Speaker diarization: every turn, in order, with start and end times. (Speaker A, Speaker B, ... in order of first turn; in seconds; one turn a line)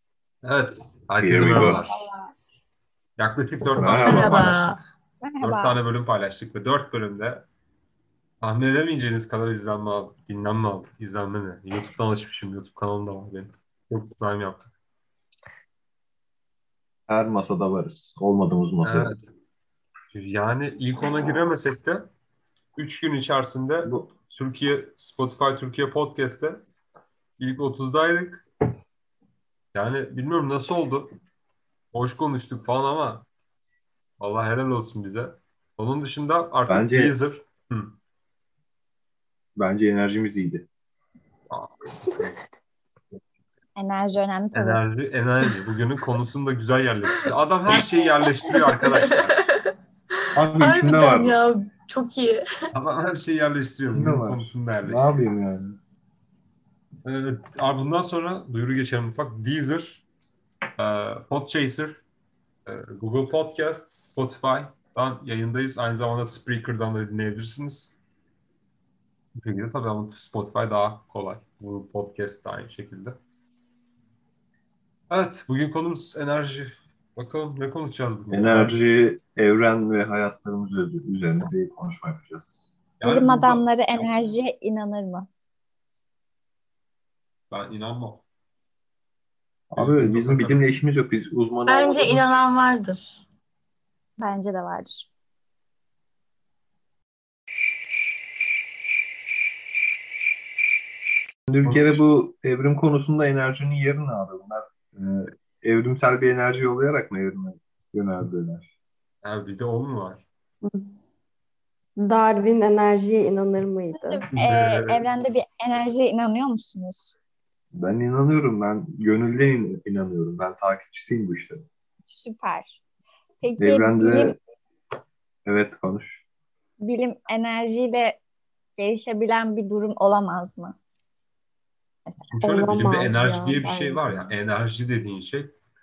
Speaker A: 0.4-2.1
Speaker B: 1.2-1.9
Speaker C: 1.6-2.1
Speaker A: 3.2-4.8
Speaker B: 3.7-4.5
Speaker D: 4.0-4.8
Speaker E: 5.2-5.8
Speaker A: 5.4-7.5
Speaker A: 8.4-14.7
Speaker B: 17.1-19.1
Speaker A: 18.8-19.3
Speaker A: 20.1-22.1
Speaker A: 22.8-26.6
Speaker B: 23.8-24.1
Speaker A: 27.4-28.4
Speaker A: 29.7-31.1
Speaker A: 31.9-33.2
Speaker A: 34.2-37.9
Speaker B: 36.7-37.2
Speaker B: 39.6-40.7
Speaker A: 41.5-42.3
Speaker E: 43.8-44.8
Speaker A: 44.5-49.3
Speaker D: 48.4-49.7
Speaker B: 50.4-51.4
Speaker D: 50.6-52.4
Speaker A: 52.7-55.2
Speaker B: 53.9-55.8
Speaker A: 57.0-60.0
Speaker A: 60.8-62.0
Speaker A: 62.7-68.0
Speaker A: 69.4-73.2
Speaker A: 75.1-78.8
Speaker B: 78.3-82.5
Speaker A: 83.0-84.1
Speaker E: 83.0-85.3
Speaker A: 87.5-88.2
Speaker B: 89.7-92.3
Speaker A: 89.8-90.8
Speaker D: 91.7-93.2
Speaker E: 94.2-95.1
Speaker B: 101.5-108.7
Speaker A: 101.6-102.0
Speaker A: 109.2-110.2
Speaker C: 112.0-114.2
Speaker E: 113.9-117.2
Speaker A: 114.4-115.0
Speaker B: 117.7-121.7
Speaker E: 122.1-122.8
Speaker E: 123.4-124.4
Speaker B: 123.6-124.4
Speaker B: 125.5-126.2
Speaker E: 126.8-128.2
Speaker E: 128.8-130.8
Speaker E: 132.1-132.3
Speaker A: 132.3-135.5
Speaker C: 132.4-134.4